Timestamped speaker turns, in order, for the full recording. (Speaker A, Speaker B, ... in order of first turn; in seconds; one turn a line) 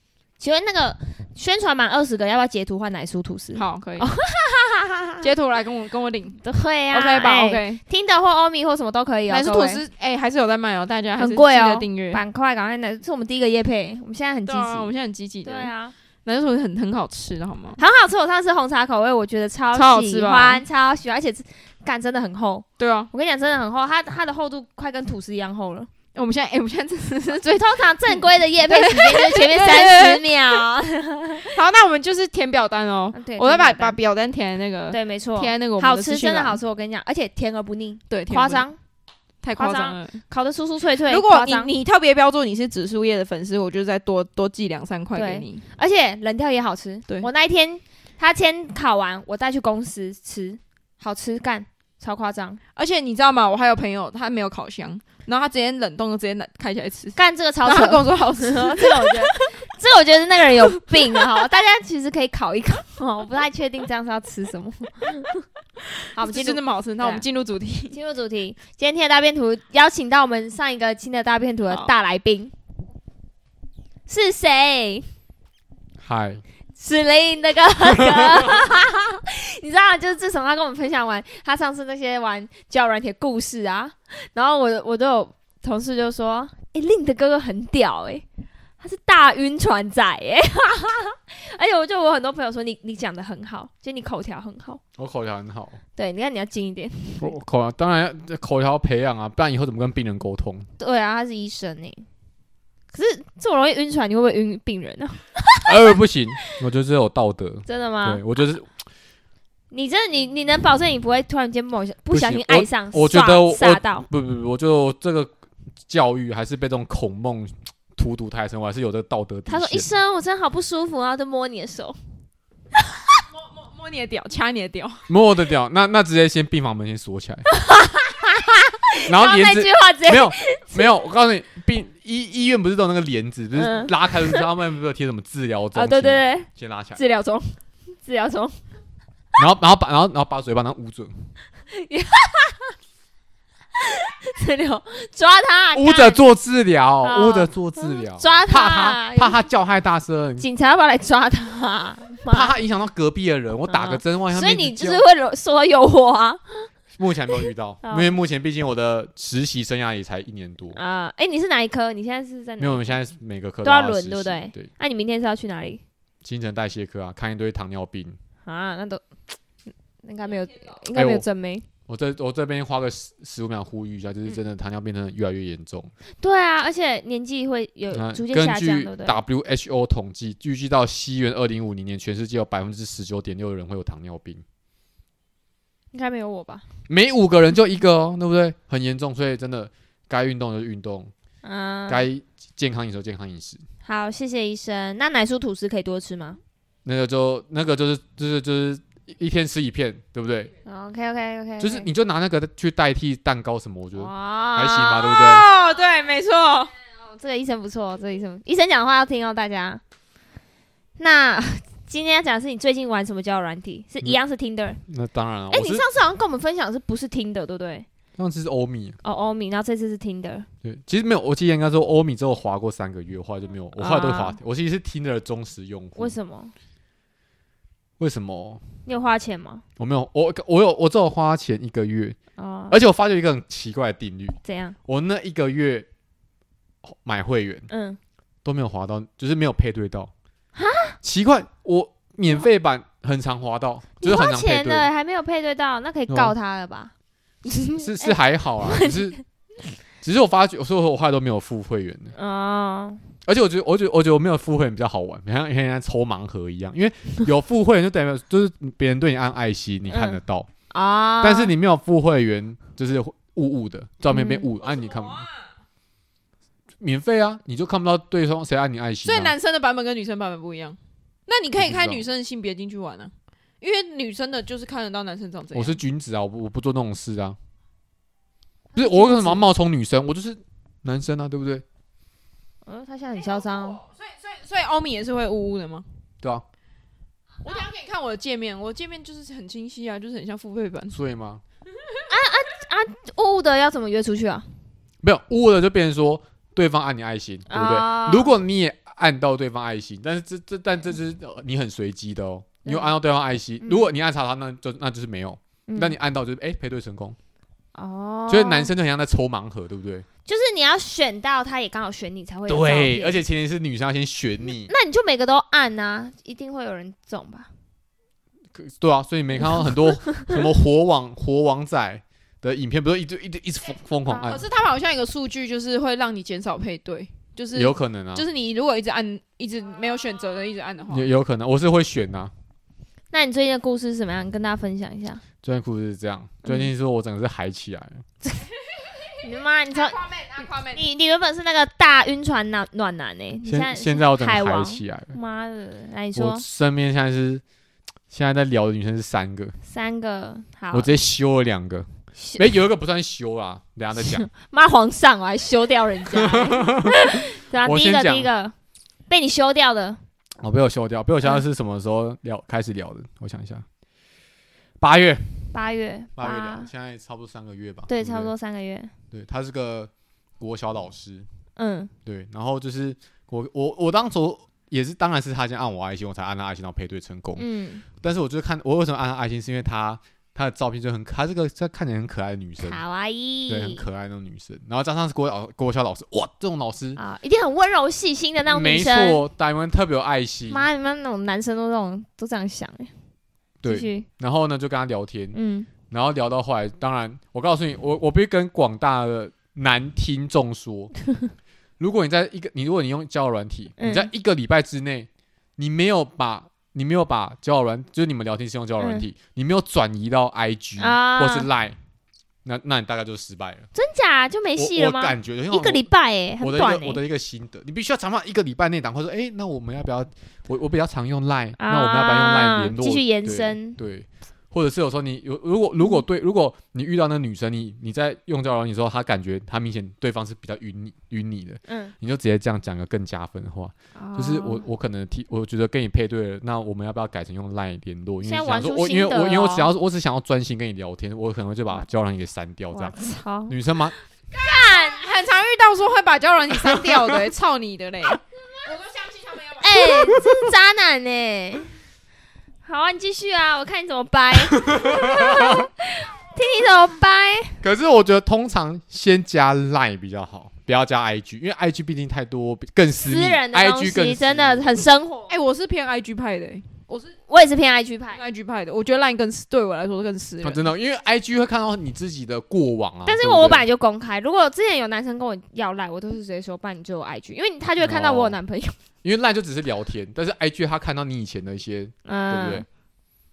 Speaker A: 0.4-5.3
Speaker B: 3.5-4.1
Speaker B: 5.2-7.8
Speaker A: 6.4-9.8
Speaker B: 9.3-12.2
Speaker A: 11.2-14.9
Speaker B: 14.5-15.7
Speaker A: 15.4-15.9
Speaker B: 16.2-17.8
Speaker A: 17.8-25.9
Speaker B: 19.7-20.6
Speaker B: 22.8-23.1
Speaker B: 26.1-30.6
Speaker A: 27.3-31.5
Speaker B: 31.4-36.6
Speaker A: 33.1-34.0
Speaker A: 34.9-38.8
Speaker B: 38.1-38.7
Speaker B: 39.4-40.2
Speaker A: 39.6-41.7
Speaker B: 41.1-45.6
Speaker A: 45.1-52.6
Speaker B: 52.8-59.5
Speaker A: 57.1-65.3
Speaker B: 60.9-61.2
Speaker A: 66.1-67.2
Speaker B: 66.2-68.0
Speaker A: 67.9-72.5
Speaker A: 74.1-75.1
Speaker C: 76.0-76.4
Speaker A: 76.8-88.2
Speaker C: 77.9-78.4
Speaker A: 88.8-94.8
Speaker C: 95.0-95.8
Speaker A: 96.0-97.3
Speaker C: 97.2-100.7
Speaker A: 100.8-102.0
Speaker A: 102.9-105.7
Speaker C: 105.6-108.7
Speaker A: 107.7-108.2
Speaker A: 109.7-114.1
Speaker C: 112.1-115.3
Speaker C: 115.9-119.9
Speaker A: 119.5-122.0
Speaker B: 123.3-125.0
Speaker C: 125.1-127.5
Speaker A: 127.5-130.8
Speaker C: 129.1-137.0
Speaker A: 133.6-134.4
Speaker A: 135.7-138.6
Speaker C: 139.4-141.1
Speaker A: 141.7-142.7
Speaker A: 143.9-146.2
Speaker C: 145.7-150.4
Speaker A: 147.0-149.4
Speaker A: 150.4-152.5
Speaker C: 152.3-155.0
Speaker A: 153.7-156.7
Speaker C: 156.9-160.8
Speaker A: 157.8-158.1
Speaker A: 160.7-163.0
Speaker C: 162.6-164.7
Speaker A: 163.6-165.8
Speaker C: 166.2-168.2
Speaker A: 168.4-169.0
Speaker A: 170.0-171.7
Speaker C: 170.9-171.2
Speaker C: 171.9-175.9
Speaker A: 176.2-179.2
Speaker C: 177.9-184.4
Speaker A: 185.9-186.6
Speaker C: 186.9-191.1
Speaker A: 191.4-192.1
Speaker C: 191.9-193.6
Speaker A: 193.8-196.4
Speaker C: 196.8-200.5
Speaker A: 200.6-201.9
Speaker C: 201.6-205.5
Speaker A: 203.9-205.2
Speaker B: 205.0-206.7
Speaker A: 207.0-209.8
Speaker A: 211.0-214.8
Speaker C: 214.9-215.8
Speaker A: 215.5-217.9
Speaker C: 218.2-219.0
Speaker A: 219.0-220.5
Speaker C: 220.6-226.1
Speaker A: 223.8-224.4
Speaker A: 225.9-226.5
Speaker C: 228.0-228.6
Speaker A: 228.8-229.6
Speaker C: 229.8-232.2
Speaker A: 232.4-232.8
Speaker C: 232.7-235.9
Speaker A: 234.4-234.8
Speaker C: 236.8-237.7
Speaker A: 237.7-238.0
Speaker C: 238.4-240.1
Speaker A: 240.5-241.0
Speaker C: 241.0-244.9
Speaker A: 244.0-246.9
Speaker C: 246.1-246.3
Speaker A: 247.4-249.2
Speaker C: 247.8-249.2
Speaker C: 250.0-252.1
Speaker A: 252.1-253.0
Speaker C: 253.2-260.5
Speaker A: 259.9-260.2
Speaker A: 260.7-261.5
Speaker C: 261.2-265.2
Speaker A: 264.1-264.5
Speaker C: 266.8-269.3
Speaker B: 269.0-275.8
Speaker C: 271.6-272.0
Speaker C: 275.5-277.4
Speaker C: 278.8-281.6
Speaker A: 278.9-279.4
Speaker B: 278.9-279.2
Speaker A: 282.6-283.8
Speaker B: 283.8-285.9
Speaker B: 287.4-291.0
Speaker C: 290.9-291.4
Speaker A: 292.1-294.5
Speaker C: 295.0-307.2
Speaker A: 297.5-298.3
Speaker A: 302.6-302.9
Speaker A: 303.6-303.9
Speaker A: 305.7-305.9
Speaker A: 307.7-308.7
Speaker C: 308.3-310.1
Speaker A: 310.2-313.2
Speaker C: 312.5-314.7
Speaker A: 314.7-317.5
Speaker C: 318.5-324.4
Speaker A: 319.4-320.3
Speaker B: 324.2-331.1
Speaker C: 327.5-328.3
Speaker C: 330.9-332.3
Speaker A: 333.1-335.2
Speaker C: 335.4-338.0
Speaker A: 336.4-336.7
Speaker A: 339.1-340.1
Speaker B: 339.7-340.8
Speaker A: 340.6-346.4
Speaker C: 343.4-345.1
Speaker C: 346.1-347.4
Speaker C: 348.1-349.6
Speaker A: 349.7-350.9
Speaker C: 350.7-354.3
Speaker A: 352.2-352.4
Speaker A: 354.0-358.5
Speaker C: 356.1-358.3
Speaker A: 359.1-360.0
Speaker C: 360.4-363.6
Speaker C: 364.8-365.4
Speaker A: 365.5-366.7
Speaker C: 366.2-368.3
Speaker A: 367.9-368.9
Speaker C: 369.1-371.3
Speaker A: 371.6-371.9
Speaker C: 372.0-377.4
Speaker A: 377.4-377.8
Speaker C: 378.0-382.8
Speaker A: 382.6-383.8
Speaker C: 383.5-387.0
Speaker A: 386.9-389.2
Speaker C: 388.5-390.6
Speaker A: 390.5-392.9
Speaker C: 393.6-395.4
Speaker A: 393.6-394.1
Speaker A: 395.3-395.7
Speaker C: 395.9-400.9
Speaker C: 401.8-411.8
Speaker A: 403.8-404.1
Speaker A: 410.8-411.5
Speaker C: 412.4-413.7
Speaker A: 413.7-417.0
Speaker C: 414.6-415.8
Speaker C: 416.4-442.9
Speaker A: 421.6-423.8
Speaker A: 431.7-431.9
Speaker A: 434.0-434.6
Speaker A: 438.2-439.7
Speaker A: 442.7-443.5
Speaker C: 443.5-443.9
Speaker B: 444.3-449.9
Speaker A: 444.3-445.0
Speaker C: 446.5-447.3
Speaker A: 449.6-451.7
Speaker C: 450.1-450.3
Speaker A: 452.6-457.6
Speaker C: 454.4-455.7
Speaker C: 457.6-464.8
Speaker A: 463.1-465.3
Speaker B: 465.3-467.1
Speaker A: 467.3-468.2
Speaker B: 468.1-470.6
Speaker C: 470.4-473.6
Speaker A: 473.1-478.8
Speaker C: 477.8-478.4
Speaker C: 479.0-482.6
Speaker A: 482.1-482.6